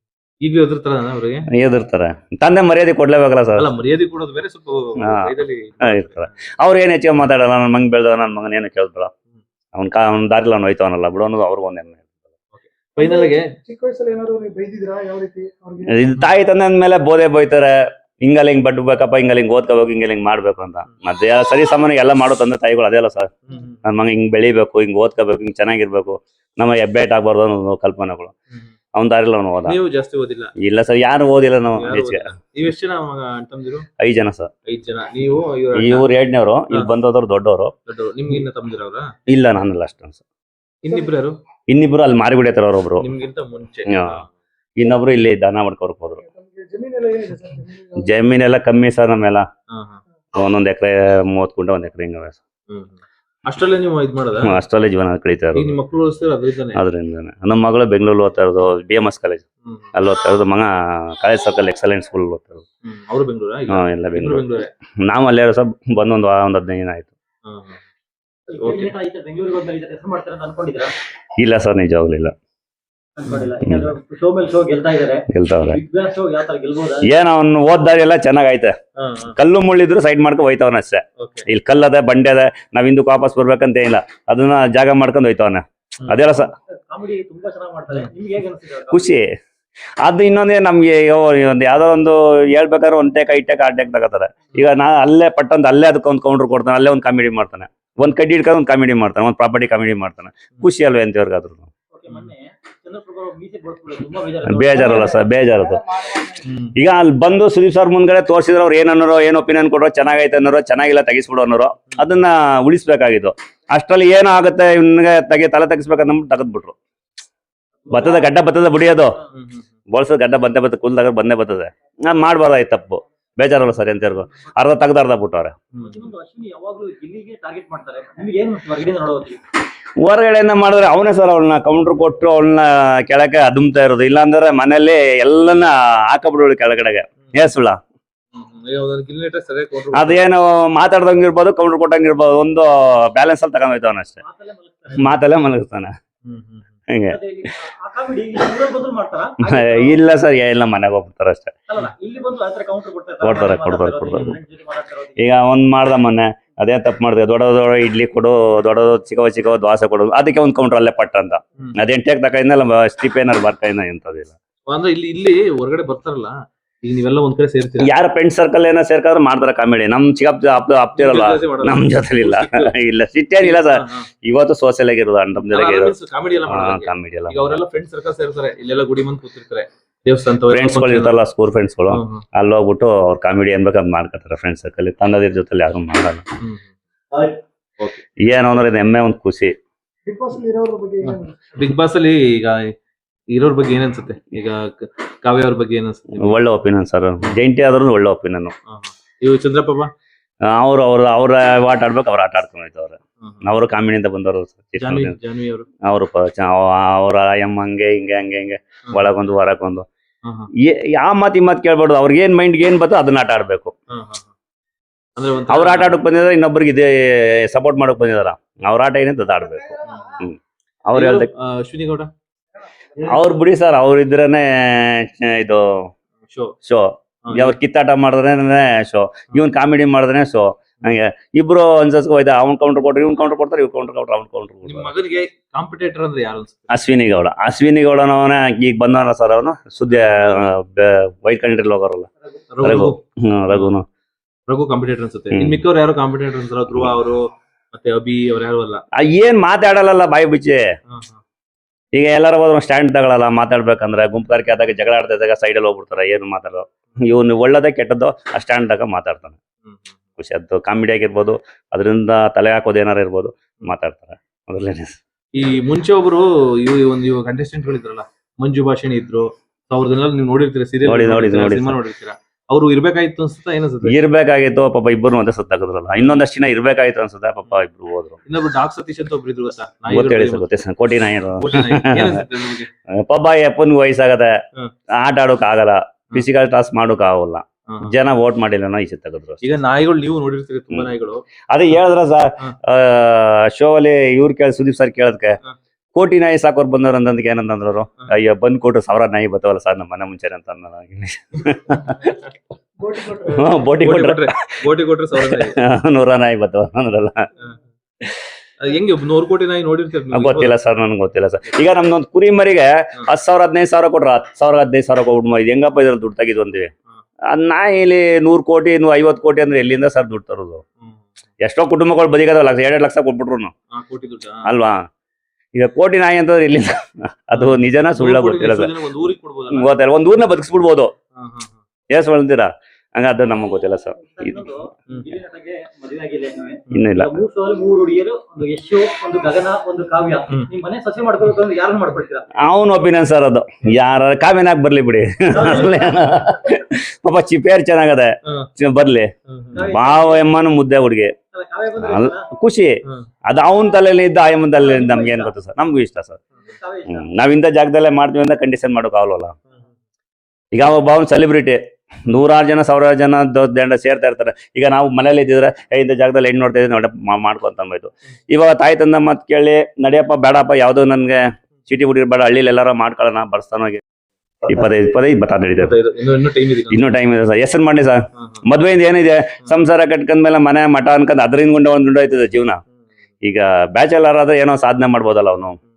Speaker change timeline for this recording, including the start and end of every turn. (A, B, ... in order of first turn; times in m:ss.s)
0:00.4-0:01.5 A
0:01.5-0:03.7 B
0:03.6-0:06.3 A
0:05.0-0:05.3 B
0:05.8-0:09.1 B
0:09.7-0:12.0 B
0:12.6-0:13.5 A
0:13.0-0:16.0 C
0:15.9-0:17.7 B
0:18.2-0:23.3 B
0:23.5-0:23.8 A
0:23.8-0:28.3 B
0:28.9-0:29.8 B
0:29.6-0:30.5 A
0:30.6-0:32.3 B
0:31.8-0:33.8 A
0:34.0-0:34.5 B
0:34.7-0:36.1 A
0:35.8-0:37.7 B
0:37.9-0:39.1 A
0:39.3-0:40.2 B
0:40.8-0:41.4 A
0:41.7-0:43.0 B
0:43.0-0:44.3 A
0:43.9-0:44.2 B
0:44.8-0:46.2 B
0:46.2-0:48.0 C
0:48.0-0:49.4 B
0:49.7-0:50.0 A
0:50.4-0:52.4 B
0:52.7-0:54.6 A
0:54.4-0:55.8 B
0:55.5-0:56.8 A
0:56.7-1:02.6 B
0:59.6-0:59.9 A
1:02.8-1:04.7 A
1:03.7-1:04.4 B
1:05.0-1:07.1 B
1:07.4-1:07.8 A
1:08.5-1:10.9 D
1:08.6-1:08.9 A
1:11.4-1:12.3 B
1:13.2-1:17.1 D
1:13.6-1:13.9 B
1:15.3-1:15.8 B
1:17.0-1:18.7 B
1:19.0-1:19.3 A
1:19.4-1:26.5 B
1:21.2-1:21.4 A
1:26.7-1:29.1 D
1:28.9-1:29.3 B
1:30.0-1:41.7 B
1:41.9-1:45.2 D
1:44.4-1:46.2 B
1:46.4-1:46.7 A
1:46.7-1:56.8 B
1:57.9-1:58.3 D
1:57.9-1:59.2 B
1:59.3-1:59.7 A
1:59.9-2:05.6 B
2:05.7-2:06.0 A
2:05.8-2:09.4 D
2:10.0-2:17.8 B
2:18.3-2:20.2 A
2:19.9-2:24.2 B
2:24.2-2:25.2 D
2:25.0-2:25.9 B
2:26.2-2:26.7 A
2:26.9-2:27.2 B
2:27.1-2:30.0 D
2:29.4-2:31.5 B
2:31.7-2:35.3 D
2:33.2-2:34.4 B
2:35.2-2:44.3 B
2:44.7-2:47.9 A
2:47.8-2:55.9 B
2:51.0-2:52.7 A
2:53.4-2:54.1 A
2:55.4-3:01.2 A
2:56.5-2:57.6 B
3:00.5-3:06.2 B
3:01.9-3:02.2 A
3:06.4-3:06.7 A
3:08.2-3:09.6 B
3:10.0-3:11.3 C
3:11.6-3:12.7 A
3:13.3-3:16.4 A
3:16.2-3:18.5 B
3:18.7-3:19.9 A
3:20.5-3:25.2 B
3:23.2-3:23.4 A
3:24.8-3:25.6 A
3:25.8-3:29.8 B
3:30.6-3:33.7 B
3:33.9-3:34.3 A
3:35.2-3:36.0 A
3:35.5-3:41.3 B
3:39.9-3:40.2 A
3:40.9-3:42.1 A
3:43.0-3:45.9 B
3:46.3-3:46.5 A
3:46.6-3:54.9 B
3:47.3-3:47.6 A
3:54.6-3:56.7 A
3:56.7-4:02.1 B
4:02.5-4:03.0 A
4:02.6-4:03.8 B
4:04.5-4:08.8 A
4:05.3-4:05.6 B
4:09.0-4:10.6 B
4:10.9-4:11.2 A
4:11.9-4:19.4 B
4:19.6-4:19.9 A
4:20.2-4:25.0 B
4:25.3-4:34.0 A
4:30.8-4:31.8 B
4:33.9-4:38.2 B
4:38.2-4:40.5 A
4:39.9-4:42.2 B
4:41.4-4:42.7 A
4:42.9-4:44.3 B
4:45.0-4:49.4 B
4:47.7-4:47.9 A
4:49.4-4:51.2 A
4:51.5-4:55.4 B
4:55.9-5:02.2 B
5:02.8-5:03.5 C
5:03.2-5:04.5 B
5:03.3-5:05.6 A
5:05.2-5:07.3 B
5:08.6-5:10.5 A
5:10.1-5:16.7 B
5:17.3-5:20.6 B
5:21.4-5:23.5 B
5:23.7-5:24.4 A
5:24.4-5:24.9 B
5:25.5-5:28.7 B
5:27.3-5:29.7 A
5:29.5-5:30.9 B
5:31.2-5:31.6 A
5:31.9-5:34.5 B
5:34.0-5:42.3 D
5:36.7-5:37.2 B
5:42.4-5:51.1 B
5:45.3-5:46.3 D
5:49.3-5:49.7 A
5:49.5-5:50.3 D
5:51.3-5:52.3 D
5:51.8-5:56.2 B
5:54.5-5:55.3 D
5:56.4-5:57.1 D
5:56.9-5:59.3 B
6:00.5-6:13.8 B
6:14.5-6:15.7 B
6:15.6-6:16.9 A
6:16.7-6:22.6 B
6:18.2-6:18.4 A
6:23.2-6:25.6 B